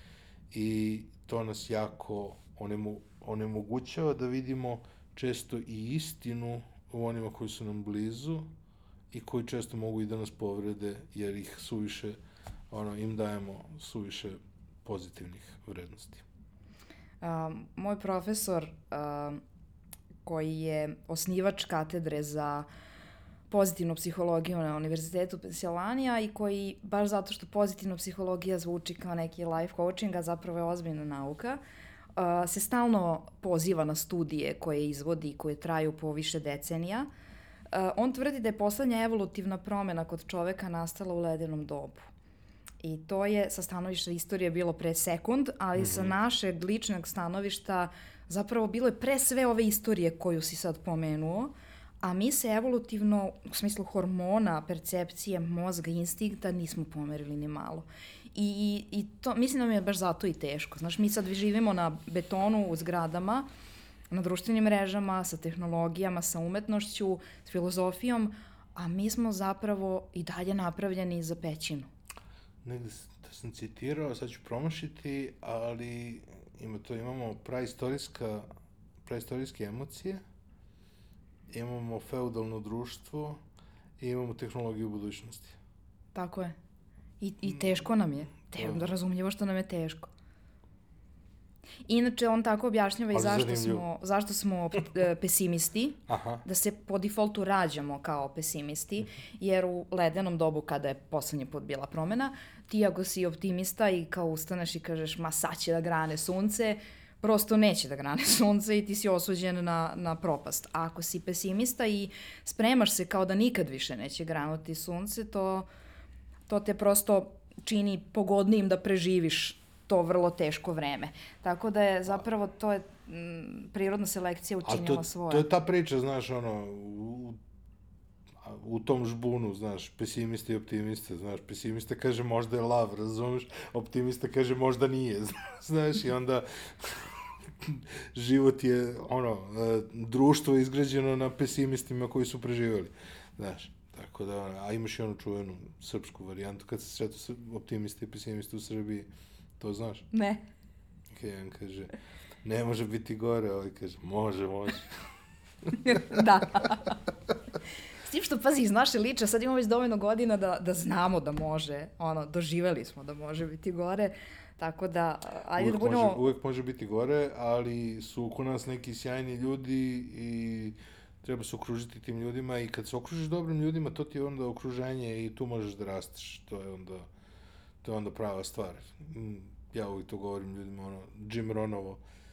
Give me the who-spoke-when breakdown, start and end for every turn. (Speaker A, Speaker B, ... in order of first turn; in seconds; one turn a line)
Speaker A: 0.5-8.5
Speaker A: 9.1-12.2
Speaker A: 12.7-16.2
Speaker B: 17.2-19.4
Speaker B: 20.2-22.7
Speaker B: 23.5-31.6
Speaker B: 32.1-37.1
Speaker B: 37.7-42.1
Speaker B: 42.8-63.5
Speaker A: 45.8-46.1
Speaker B: 64.1-71.9
Speaker A: 72.6-78.5
Speaker A: 79.0-80.2
Speaker A: 81.5-83.4
Speaker A: 84.0-85.6
Speaker B: 86.1-86.5
Speaker B: 87.2-90.1
Speaker A: 88.6-88.9
Speaker B: 91.8-115.7
Speaker A: 93.1-93.8
Speaker A: 96.1-96.4
Speaker B: 116.5-125.5
Speaker A: 124.6-127.4
Speaker A: 128.4-149.1
Speaker A: 149.6-150.1
Speaker B: 150.1-150.5
Speaker A: 151.1-151.9
Speaker A: 152.4-154.9
Speaker A: 155.7-156.1
Speaker B: 155.8-157.0
Speaker B: 158.0-166.2
Speaker A: 165.6-177.1
Speaker A: 177.8-182.0